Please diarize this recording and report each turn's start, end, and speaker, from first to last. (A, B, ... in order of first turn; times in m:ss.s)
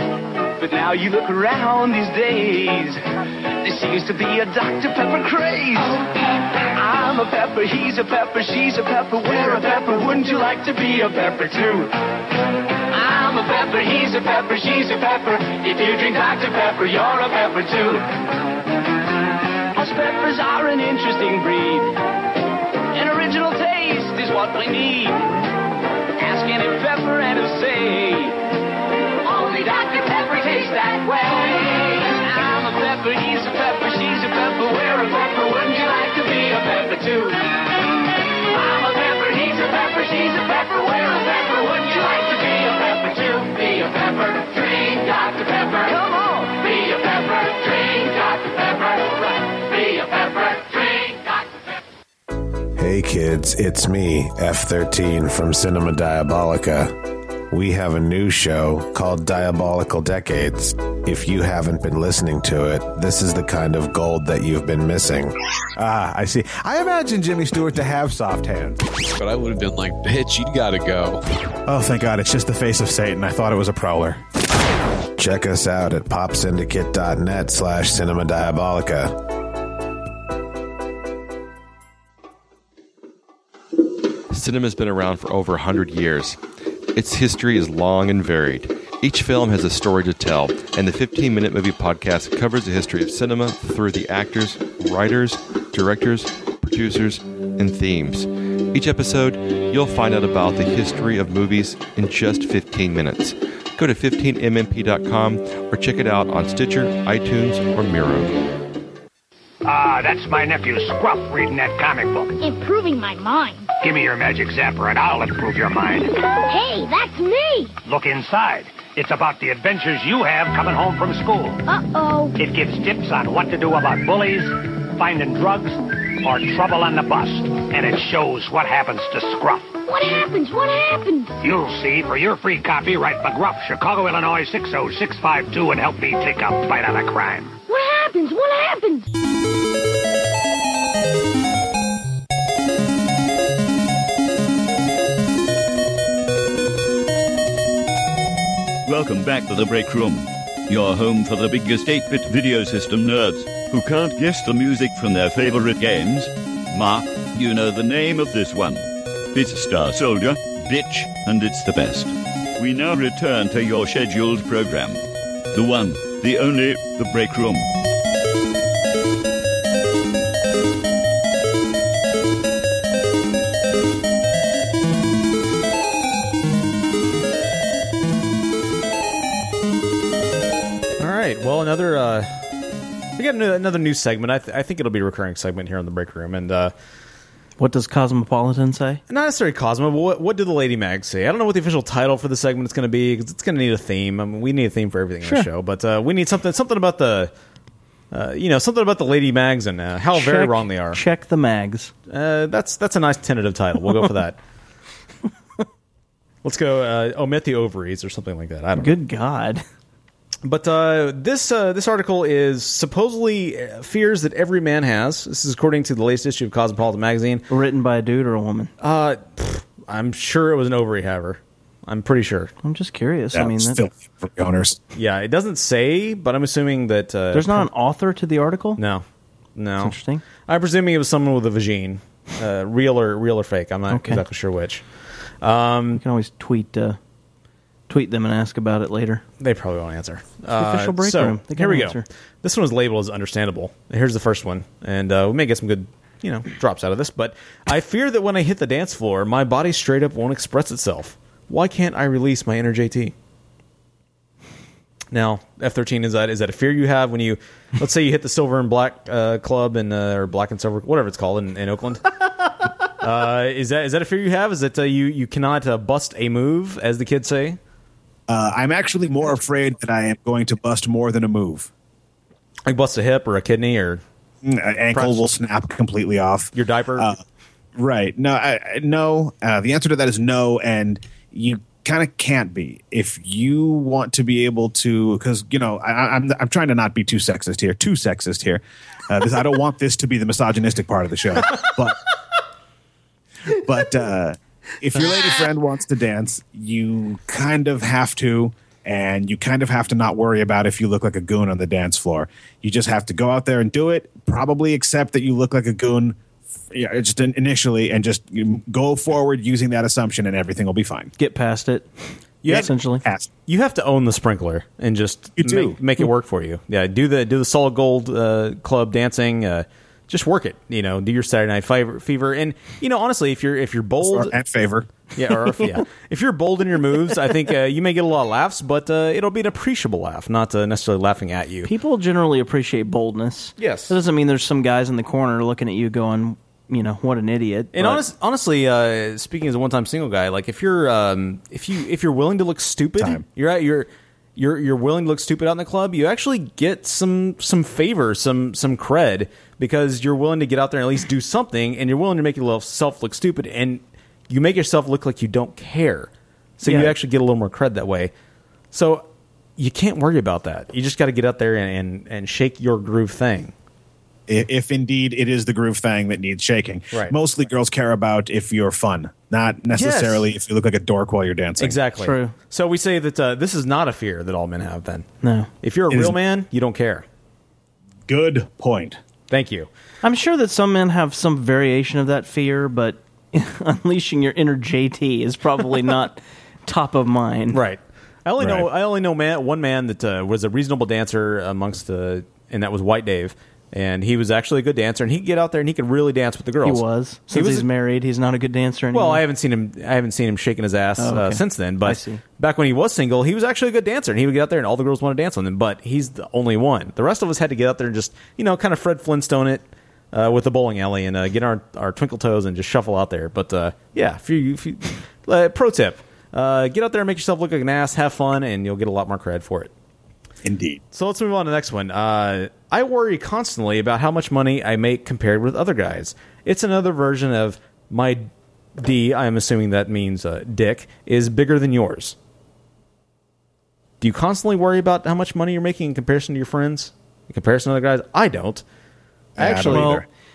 0:00.6-0:03.0 A
0:03.6-0:06.0 A
0:06.7-0:11.9 A
0:12.9-0:18.1 A
0:19.8-0:21.9 A
0:22.9-0:25.2 A
0:26.2-0:28.4 A
0:29.2-0:37.5 A
0:38.5-0:51.2 A
0:52.8-0:57.0 B
0:57.5-1:05.3 B
1:05.8-1:08.8 C
1:09.2-1:11.2 D
1:11.7-1:14.2 C
1:15.2-1:19.1 B
1:24.3-1:26.4 E
1:26.9-1:48.4 E
1:49.6-1:52.4 F
1:52.4-1:53.7 G
1:53.8-1:56.1 F
1:56.4-1:57.7 G
1:57.8-2:01.6 F
2:01.7-2:02.4 G
2:02.4-2:09.8 F
2:09.9-2:11.4 G
2:11.4-2:17.6 F
2:17.7-2:19.0 G
2:28.8-2:45.0 H
2:45.5-2:47.7 H
3:01.0-3:02.3 I
3:03.2-3:06.7 I
3:07.6-3:09.0 J
3:09.1-3:17.3 I
3:18.1-3:21.0 I
3:20.1-3:21.9 J
3:22.1-3:24.4 I
3:26.4-3:29.0 I
3:28.8-3:29.6 J
3:30.4-3:37.4 I
3:37.5-3:38.7 J
3:38.8-3:42.5 I
3:42.6-3:43.8 J
3:43.3-3:44.8 C
3:45.0-3:47.7 I
3:47.3-3:48.8 J
3:48.8-3:49.0 I
3:49.6-3:54.9 I
3:49.8-3:50.2 J
3:53.9-3:54.2 J
3:55.4-3:56.0 I
3:55.9-3:57.0 J
3:57.9-3:59.2 J
3:59.4-4:13.1 I
4:00.5-4:02.0 J
4:15.1-4:22.2 I
4:23.0-4:27.6 I
4:28.3-4:31.7 C
4:32.7-4:34.0 I
4:34.4-4:37.2 C
4:34.9-4:35.2 I
4:36.5-4:37.1 I
4:37.8-4:52.0 C
4:53.5-5:06.2 C
5:06.7-5:11.1 C
5:11.2-5:11.9 J
5:12.4-5:12.7 I
5:12.4-5:13.0 J
5:13.0-5:13.3 C
5:13.5-5:24.3 I
5:15.4-5:15.8 C
5:24.0-5:24.9 C
5:25.2-5:31.7 I
5:31.6-5:38.0 J
5:33.6-5:33.9 I
5:37.7-5:58.1 I
5:56.6-5:57.0 J
5:58.7-5:59.0 I
5:59.6-6:03.5 I
6:04.3-6:11.8 C
6:09.7-6:10.3 I
6:11.6-6:15.1 I
6:12.0-6:12.3 J
6:15.2-6:15.5 J
6:15.6-6:17.0 I
6:15.9-6:16.2 C
6:18.1-6:19.0 C
6:19.3-6:19.7 I
6:20.0-6:27.6 J
6:27.5-6:37.7 I
6:28.4-6:28.7 C
6:36.6-6:39.2 J
6:38.9-6:59.7 I
6:41.0-6:42.2 J
7:00.4-7:00.8 C
7:00.9-7:12.2 I
7:14.0-7:18.6 I
7:19.4-7:20.0 I
7:19.4-7:20.0 C
7:19.7-7:20.0 J